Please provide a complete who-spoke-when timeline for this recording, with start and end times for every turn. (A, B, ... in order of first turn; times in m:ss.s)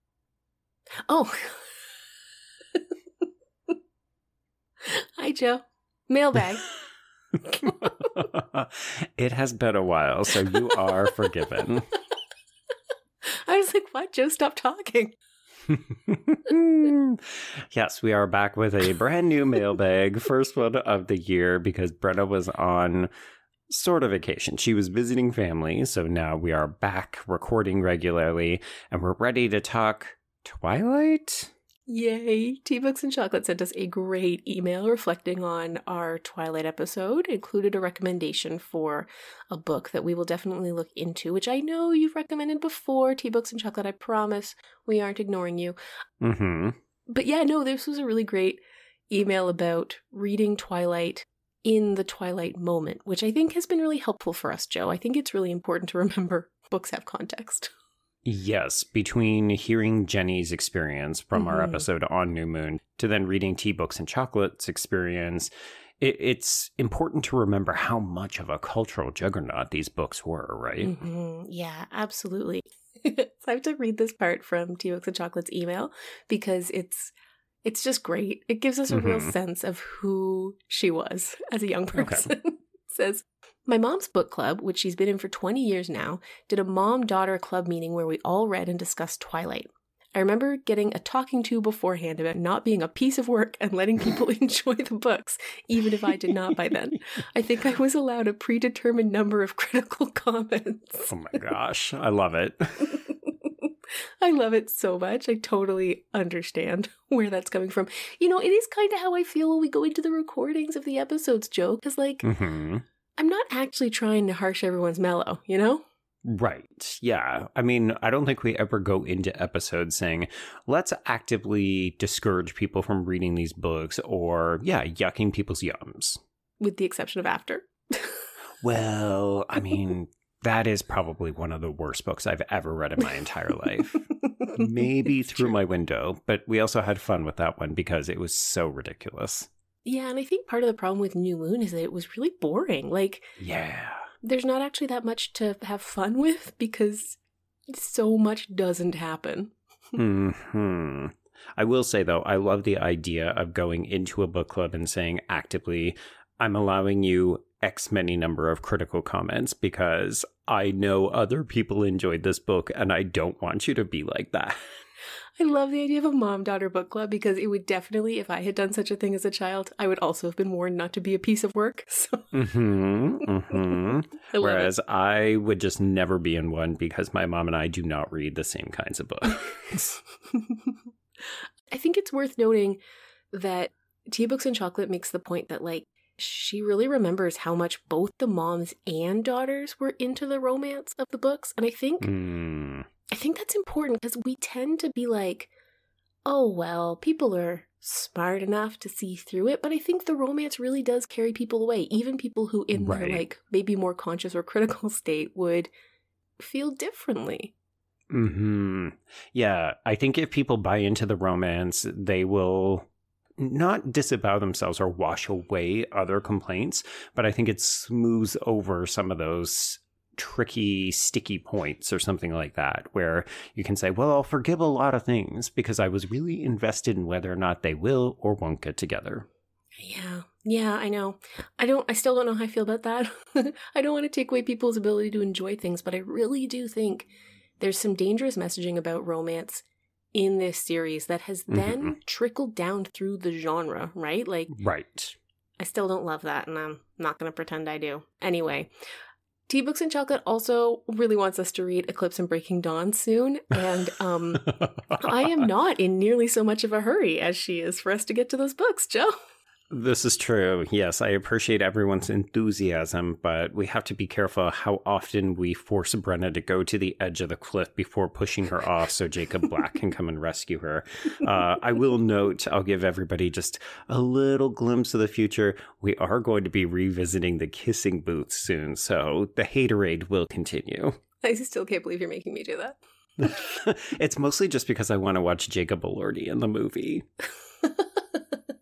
0:01.1-0:01.6 A
0:04.8-0:06.7 A
0:07.5-0:11.9 B
0:13.3-0:15.2 A
0:15.7-0:23.1 B
0:23.7-0:31.5 B
0:31.9-0:45.8 A
0:46.2-0:46.8 B
0:47.1-0:57.7 A
0:58.2-1:11.0 B
1:01.4-1:01.9 A
1:10.8-1:41.2 A
1:18.9-1:19.3 B
1:21.9-1:22.3 B
1:41.1-1:43.0 B
1:42.9-1:52.3 A
1:52.2-1:52.8 B
1:53.2-1:55.8 A
1:56.2-2:06.2 B
2:06.6-2:08.2 A
2:08.6-2:19.5 B
2:14.1-2:14.7 A
2:19.8-2:23.3 A
2:23.4-2:24.0 B
2:24.2-2:29.5 A
2:30.0-2:44.6 B
2:45.4-2:52.5 A
2:52.3-3:00.0 B
2:54.3-2:54.7 A
3:00.3-3:00.8 A
3:01.7-3:02.8 A
3:03.3-3:12.1 A
3:12.0-3:12.9 B
3:13.1-3:15.5 A
3:16.3-3:25.7 A
3:22.7-3:23.2 B
3:26.4-3:27.5 A
3:28.1-3:32.9 B
3:33.4-3:49.3 B
3:49.8-3:57.1 A
3:57.6-4:04.6 A
4:01.5-4:02.0 B
4:04.5-4:05.2 B
4:05.6-4:08.7 A
4:09.5-4:19.1 A
4:14.6-4:15.4 B
4:19.7-4:41.0 B
4:41.2-4:42.8 A
4:43.2-4:47.0 B
4:47.6-4:48.4 A